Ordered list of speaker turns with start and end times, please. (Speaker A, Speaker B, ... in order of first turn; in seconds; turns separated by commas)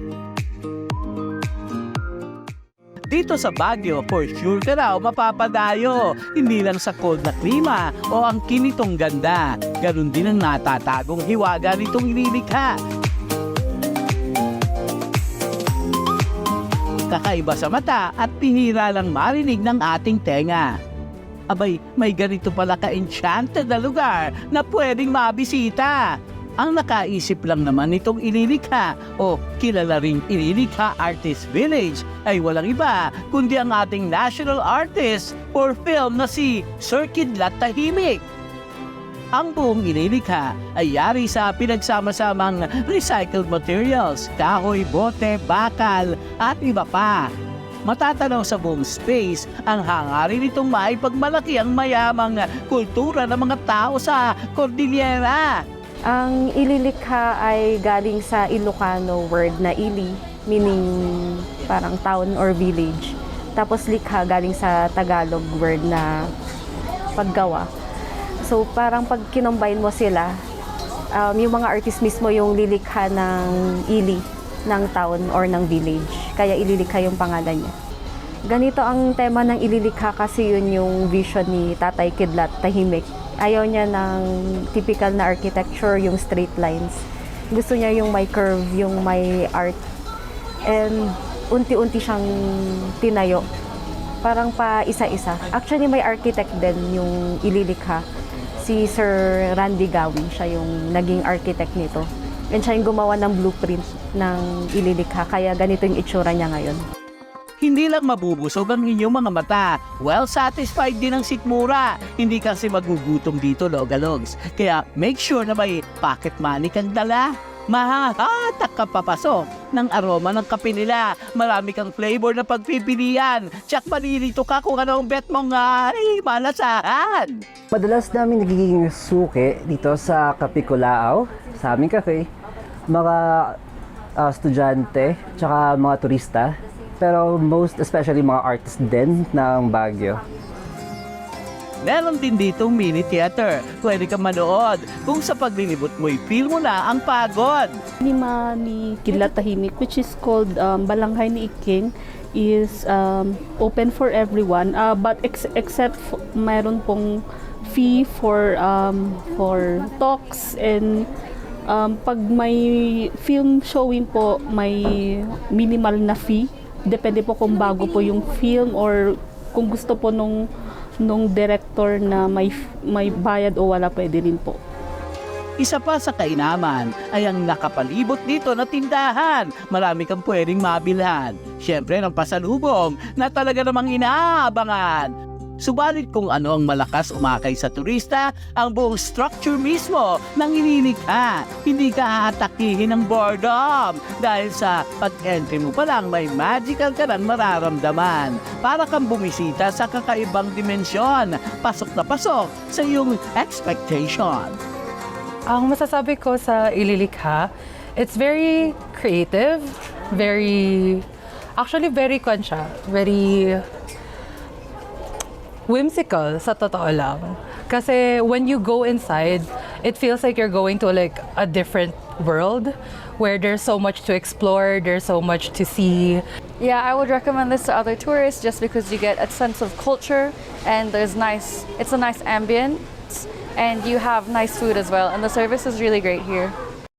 Speaker A: 3.1-12.8, Speaker A: 17.1-20.8, Speaker A: 21.5-26.1, Speaker A: 26.6-38.2, Speaker A: 39.3-47.3, Speaker A: 47.9-55.6, Speaker B: 56.1-66.1, Speaker B: 67.2-67.7, Speaker B: 68.4-70.3, Speaker B: 71.2-77.7, Speaker B: 78.5-87.0, Speaker B: 87.5-89.8, Speaker B: 90.7-93.5, Speaker B: 94.2-98.0, Speaker B: 98.6-106.8, Speaker A: 107.6-127.4, Speaker C: 127.7-132.3, Speaker C: 132.9-133.6, Speaker C: 134.2-140.2, Speaker A: 141.8-147.8, Speaker D: 148.0-157.1, Speaker D: 157.7-161.1, Speaker D: 161.7-170.4, Speaker D: 171.0-174.6, Speaker A: 175.6-204.6, Speaker E: 205.5-213.6, Speaker E: 215.7-226.2, Speaker F: 226.6-236.5